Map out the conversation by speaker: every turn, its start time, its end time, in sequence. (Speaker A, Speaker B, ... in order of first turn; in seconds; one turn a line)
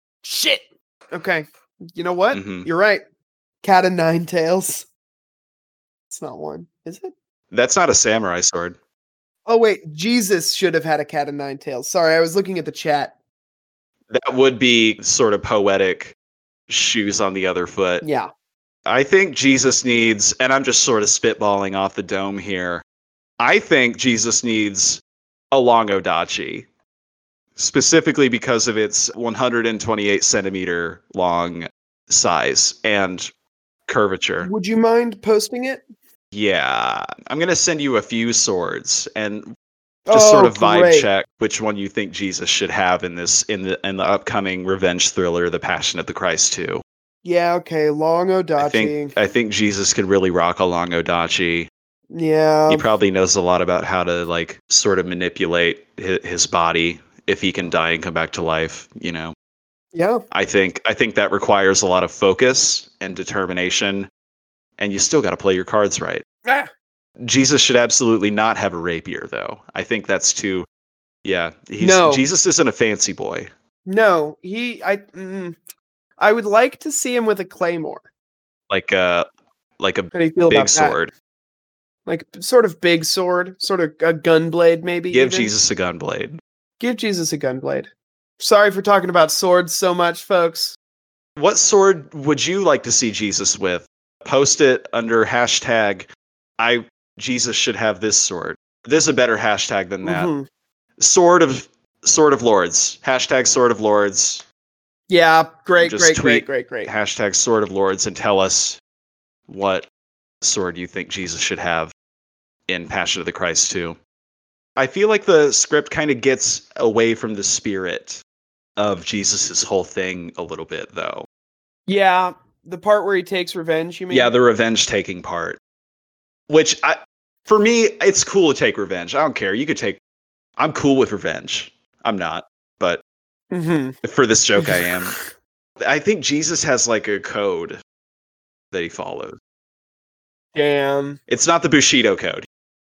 Speaker A: 0.2-3.0
Speaker B: 2.3-2.7
Speaker A: 3.6-4.9
Speaker A: 6.1-7.1
Speaker B: 7.5-8.8
Speaker A: 9.5-13.1
Speaker B: 14.1-16.1
Speaker B: 16.7-18.0
Speaker A: 18.0-18.3
Speaker B: 18.9-22.8
Speaker B: 23.4-26.7
Speaker B: 27.6-33.3
Speaker B: 33.9-34.5
Speaker A: 34.4-35.8
Speaker B: 36.3-39.5
Speaker A: 40.1-41.1
Speaker B: 40.1-46.8
Speaker A: 47.2-49.1
Speaker B: 48.6-51.7
Speaker A: 52.1-52.9
Speaker B: 52.7-59.3
Speaker A: 59.9-60.2
Speaker B: 60.3-64.1
Speaker B: 64.8-66.2
Speaker B: 67.2-70.7
Speaker B: 71.2-73.5
Speaker A: 71.8-72.2
Speaker A: 73.9-75.6
Speaker A: 76.2-78.0
Speaker B: 78.7-79.3
Speaker B: 79.8-81.1
Speaker A: 80.1-81.0
Speaker A: 82.1-85.5
Speaker B: 85.1-86.4
Speaker A: 86.8-90.8
Speaker B: 91.4-100.3
Speaker A: 100.0-100.5
Speaker B: 101.0-104.4
Speaker A: 105.1-106.9
Speaker B: 105.8-108.8
Speaker B: 109.5-109.9
Speaker B: 110.4-111.9
Speaker B: 112.7-114.0
Speaker B: 114.8-118.2
Speaker B: 118.8-121.3
Speaker A: 121.9-124.3
Speaker B: 124.1-125.6
Speaker B: 126.5-130.0
Speaker B: 130.6-133.0
Speaker A: 133.5-134.0
Speaker B: 134.0-135.2
Speaker A: 134.6-135.2
Speaker B: 135.8-137.8
Speaker B: 138.7-139.4
Speaker A: 140.6-141.2
Speaker B: 141.3-142.5